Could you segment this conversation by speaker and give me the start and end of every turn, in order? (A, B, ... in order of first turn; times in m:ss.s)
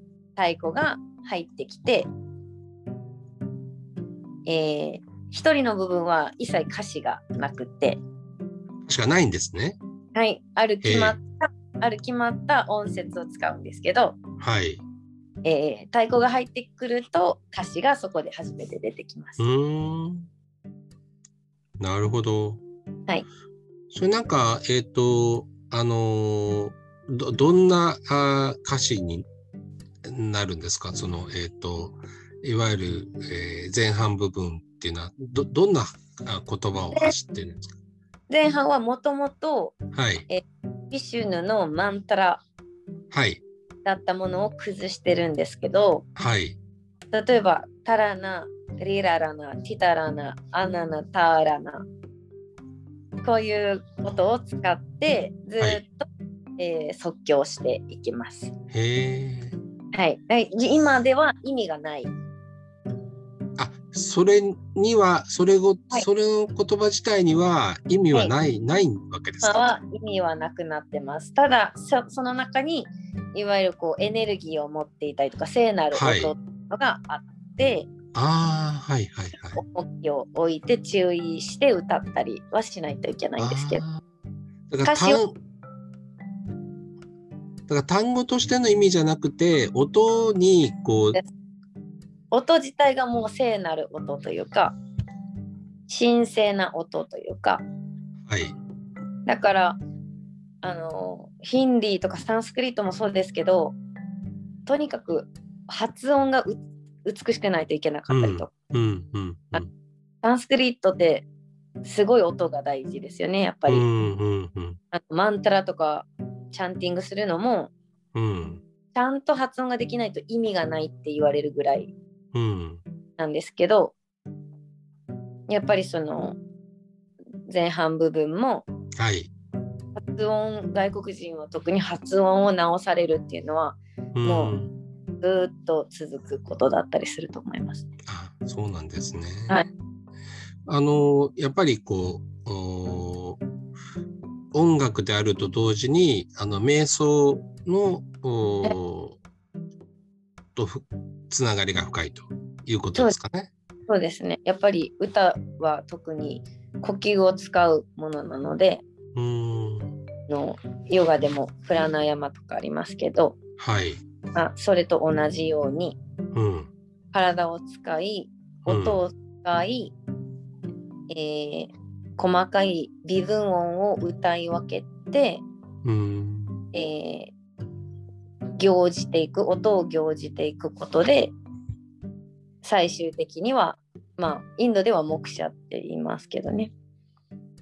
0:00.4-0:02.1 A
0:04.4-0:08.0 A
0:08.8-0:09.8 B
0:10.1-0:14.2 A
0:10.8-0:11.2 B
0:14.4-0:14.8 B
0:15.4-0:19.4 A
0:19.4-0:20.3 B
0:21.8-0:22.6 B
0:23.9-0:29.3 B
0:30.0-0:37.7 B
0:38.3-0:39.8 A
0:39.9-0:40.3 B
0:40.3-0:42.4 A
0:43.1-0:43.4 B
0:43.8-0:46.0 A
0:46.2-0:46.6 B
0:47.1-0:51.9 A
0:53.2-0:56.0 A
0:56.6-0:58.5 A
0:58.7-0:59.6 B
0:59.9-1:02.1 A
1:03.6-1:09.6 B
1:09.4-1:17.9 A
1:15.9-1:16.3 B
1:18.1-1:19.6 B
1:19.5-1:23.8 A
1:23.4-1:24.0 B
1:24.7-1:25.4 B
1:24.8-1:25.2 A
1:27.7-1:31.2 B
1:32.3-1:34.8 A
1:35.9-1:37.6 A
1:38.2-1:38.6 B
1:39.2-1:39.8 A
1:40.6-1:43.8 A
1:44.6-1:48.5 A
1:48.1-1:49.7 B
1:50.2-1:51.3 A
1:51.8-1:53.8 A
1:53.7-1:54.8 B
1:54.9-1:57.7 A
1:58.1-1:58.6 B
1:58.9-2:01.9 A
2:02.3-2:02.8 B
2:03.2-2:03.9 A
2:05.5-2:06.4 A
2:07.5-2:08.6 A
2:09.0-2:09.3 B
2:10.0-2:14.6 A
2:14.1-2:14.7 B
2:15.2-2:17.9 A
2:18.1-2:19.6 B
2:20.7-2:23.4 B
2:24.5-2:29.2 B
2:30.6-2:33.5 B
2:33.9-2:38.8 A
2:39.1-2:39.9 B
2:40.3-2:43.4 A
2:43.6-2:44.0 B
2:44.3-2:46.0 A
2:46.3-2:46.7 B
2:47.1-2:49.9 A
2:48.6-2:49.0 B
2:51.1-2:55.4 A
2:55.8-2:56.6 B
2:56.7-2:57.3 A
2:58.6-3:01.3 A
3:02.6-3:06.7 A